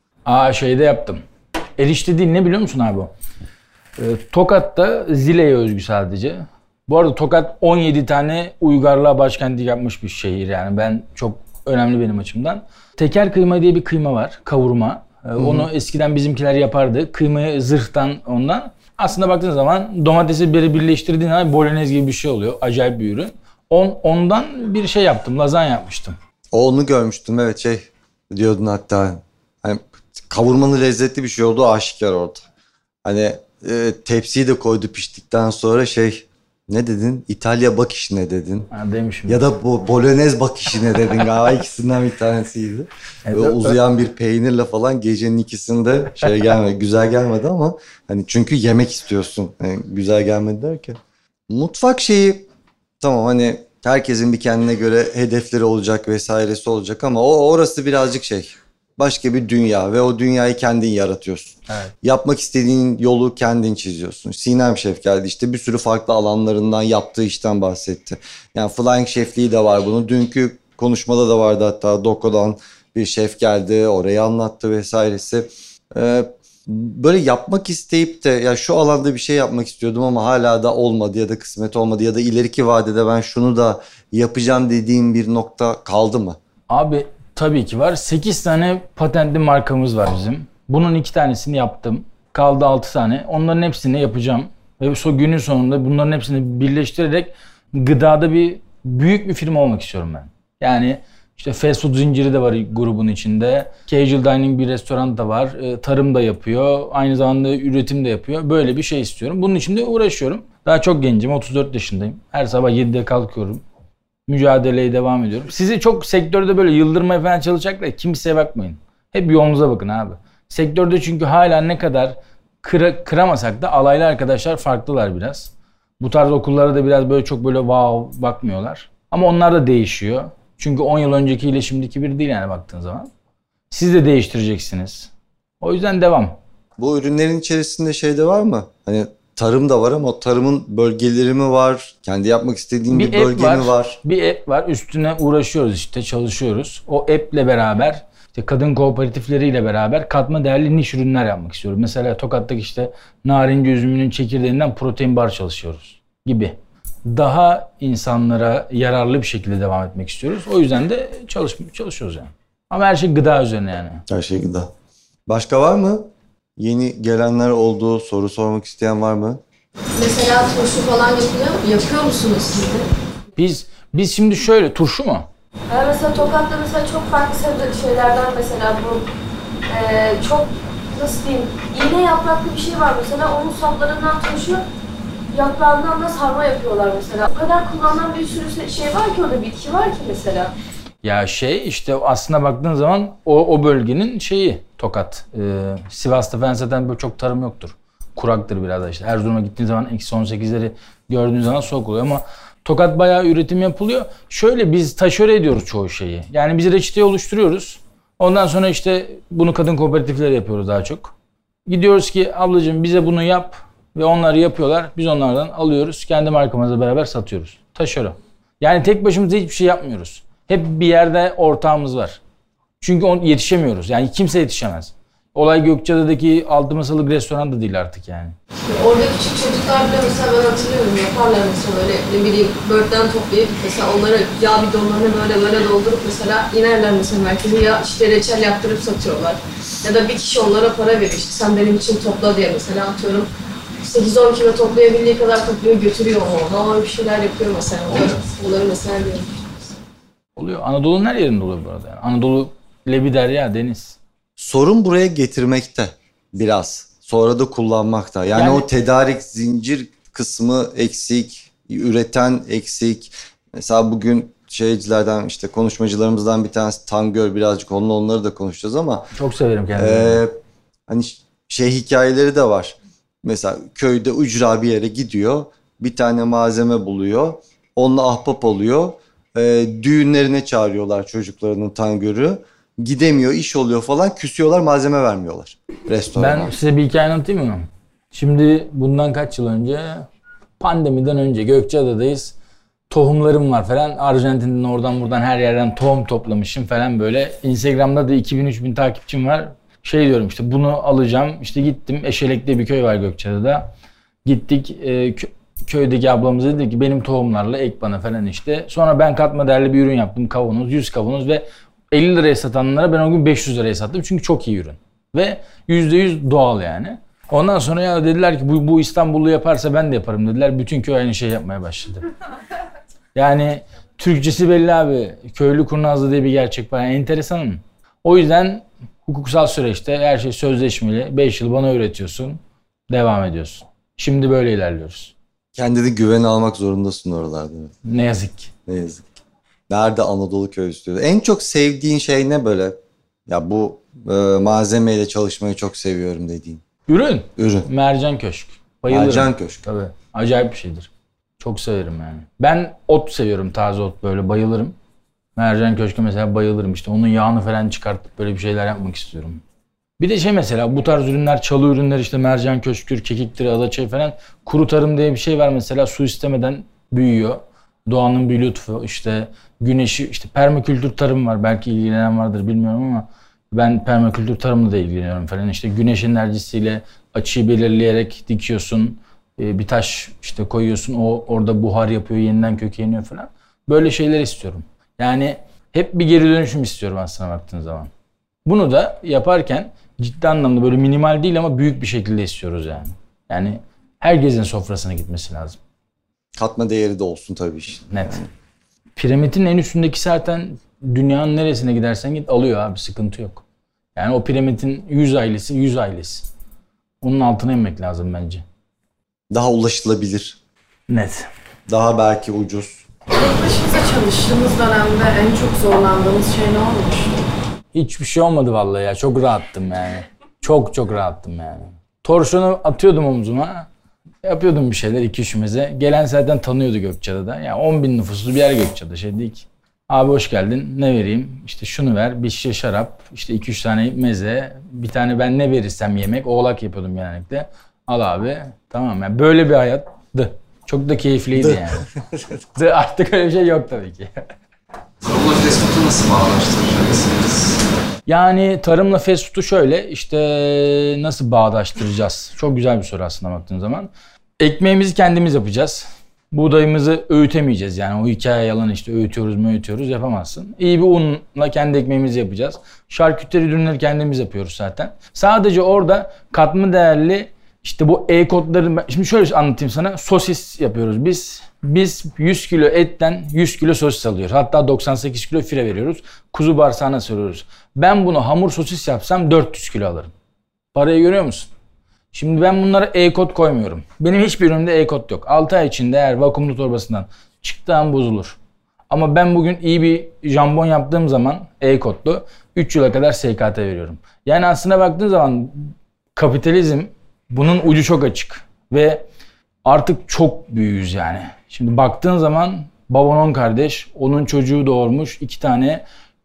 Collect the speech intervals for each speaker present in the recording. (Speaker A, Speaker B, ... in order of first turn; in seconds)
Speaker A: 0.2-1.2, 1.8-3.1, 4.0-26.1, 38.7-39.4, 43.2-43.8, 61.7-61.9, 86.7-113.6, 114.3-133.1, 133.7-136.4, 142.9-164.1, 173.3-175.3, 191.0-211.1, 211.7-222.2, 222.8-228.3, 250.4-254.0, 258.3-258.6, 269.1-270.2, 286.2-290.1, 290.6-292.3, 292.9-303.7, 304.2-322.1, 323.1-335.1, 337.8-338.5, 346.9-354.7, 355.4-359.4, 360.0-387.9, 388.4-395.6, 397.9-398.2, 398.9-403.4, 403.9-406.3, 407.0-408.4, 410.9-411.3, 417.7-423.7, 424.2-441.9, 442.5-444.2, 448.1-480.1, 480.7-481.5, 482.1-488.4, 488.9-499.0, 499.6-505.8
Speaker B: 15.4-15.7, 26.5-32.4, 33.0-38.7, 39.3-52.5, 53.0-86.4, 136.8-144.0, 164.1-164.7, 165.3-169.4, 254.4-269.1, 269.8-270.3, 270.9-286.5, 335.5-337.7, 338.7-339.1, 339.7-346.6, 347.4-347.7, 348.9-349.6, 396.4-398.3, 409.3-410.4, 411.7-412.8, 441.4-442.2
Speaker C: 170.0-172.9, 175.7-179.0, 179.7-184.6, 185.3-190.5, 228.7-243.3, 243.8-249.3, 413.1-417.1
Speaker D: 445.0-447.6